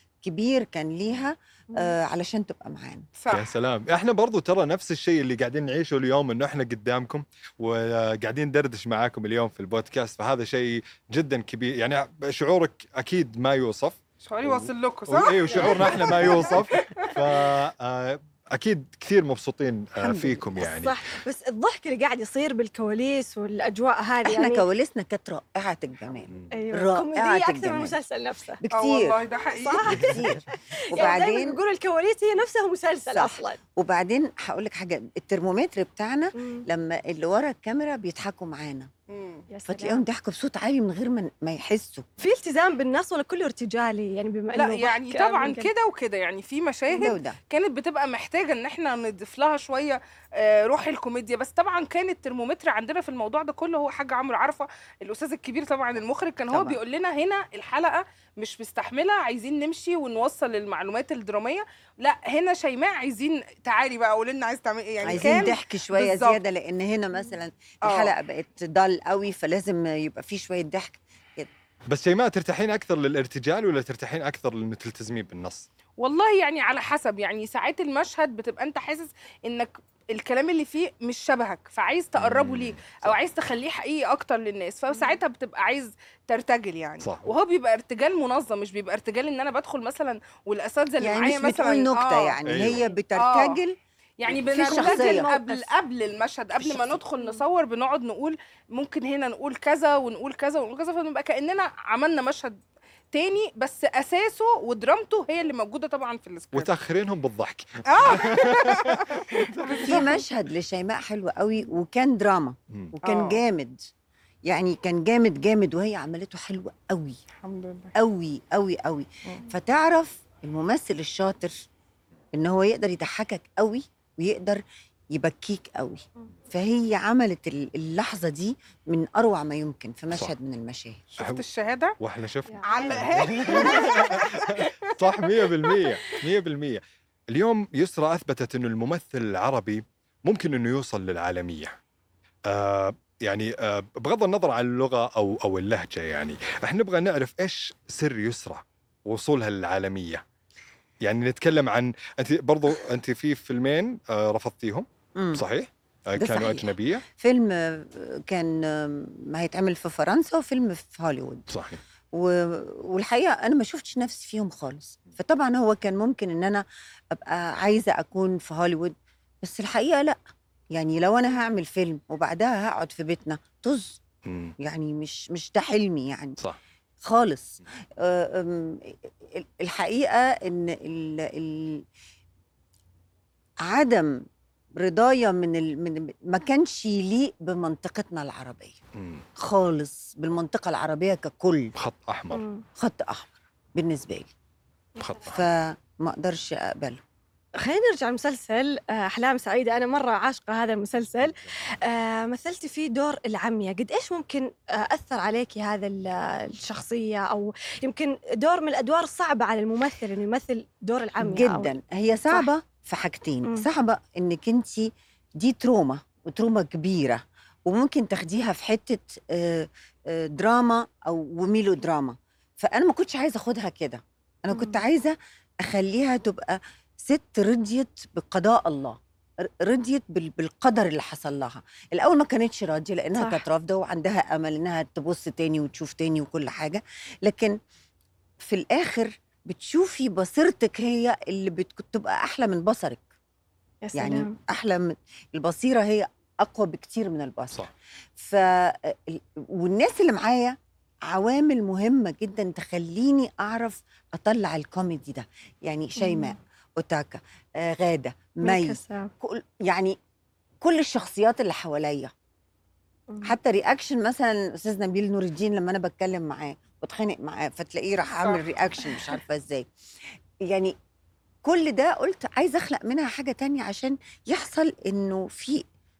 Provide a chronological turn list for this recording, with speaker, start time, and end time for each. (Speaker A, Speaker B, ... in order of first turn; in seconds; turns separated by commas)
Speaker A: 0.2-3.1, Speaker B: 3.2-3.5, Speaker C: 3.3-21.0, Speaker B: 14.2-17.0, Speaker D: 15.5-16.3, Speaker A: 20.0-20.5, Speaker D: 20.6-24.6, Speaker A: 24.3-28.0, Speaker D: 26.5-28.6, Speaker A: 28.6-29.2, Speaker B: 28.7-30.0, Speaker D: 29.6-30.4, Speaker A: 29.9-31.6, Speaker D: 30.9-33.6, Speaker A: 33.1-38.9, Speaker D: 36.4-36.6, Speaker B: 39.1-39.5, Speaker D: 39.5-40.0, Speaker A: 39.7-42.1, Speaker D: 42.2-45.7, Speaker B: 44.5-66.4, Speaker A: 47.0-47.4, Speaker A: 56.5-56.8, Speaker A: 65.0-71.5, Speaker B: 67.8-68.1, Speaker C: 71.9-75.7, Speaker B: 76.0-93.6, Speaker C: 82.2-83.2, Speaker D: 84.9-85.2, Speaker C: 87.0-87.3, Speaker A: 91.0-93.8, Speaker C: 92.5-92.8, Speaker B: 94.2-102.6, Speaker A: 94.3-95.4, Speaker D: 94.6-95.7, Speaker A: 96.6-97.0, Speaker B: 103.1-106.7, Speaker C: 106.5-110.1, Speaker B: 107.9-110.2, Speaker A: 109.8-113.8, Speaker B: 113.0-113.4, Speaker A: 114.5-117.2, Speaker B: 117.4-117.9, Speaker A: 118.0-121.6, Speaker A: 122.3-124.6, Speaker A: 125.1-131.1, Speaker C: 131.2-131.4, Speaker B: 131.2-132.0, Speaker C: 132.0-141.8, Speaker D: 132.4-132.8, Speaker B: 132.7-135.9, Speaker C: 142.5-150.2, Speaker C: 151.0-157.0, Speaker A: 155.2-155.4, Speaker A: 156.2-161.5, Speaker C: 161.5-161.8, Speaker A: 162.1-168.9, Speaker A: 169.4-170.2, Speaker A: 170.8-174.0, Speaker C: 174.3-174.6, Speaker A: 174.6-176.4, Speaker A: 177.0-178.8, Speaker A: 179.4-181.8, Speaker A: 183.7-184.2, Speaker A: 184.8-188.8, Speaker C: 189.0-189.2, Speaker A: 189.4-191.7, Speaker C: 191.8-192.4, Speaker D: 192.3-192.6, Speaker A: 192.8-194.3, Speaker C: 195.0-195.4, Speaker A: 195.3-197.0, Speaker D: 197.6-211.7, Speaker A: 211.2-225.2, Speaker D: 224.5-224.8, Speaker A: 225.7-229.0, Speaker A: 229.6-237.6, Speaker D: 233.2-233.4, Speaker A: 238.4-243.0, Speaker D: 243.8-244.3, Speaker A: 243.9-250.6, Speaker A: 251.1-260.0, Speaker D: 256.0-256.3, Speaker D: 258.4-259.1, Speaker A: 260.6-262.1, Speaker D: 263.1-263.4, Speaker A: 263.2-269.6, Speaker B: 268.2-268.5, Speaker A: 270.5-270.7, Speaker A: 271.4-275.6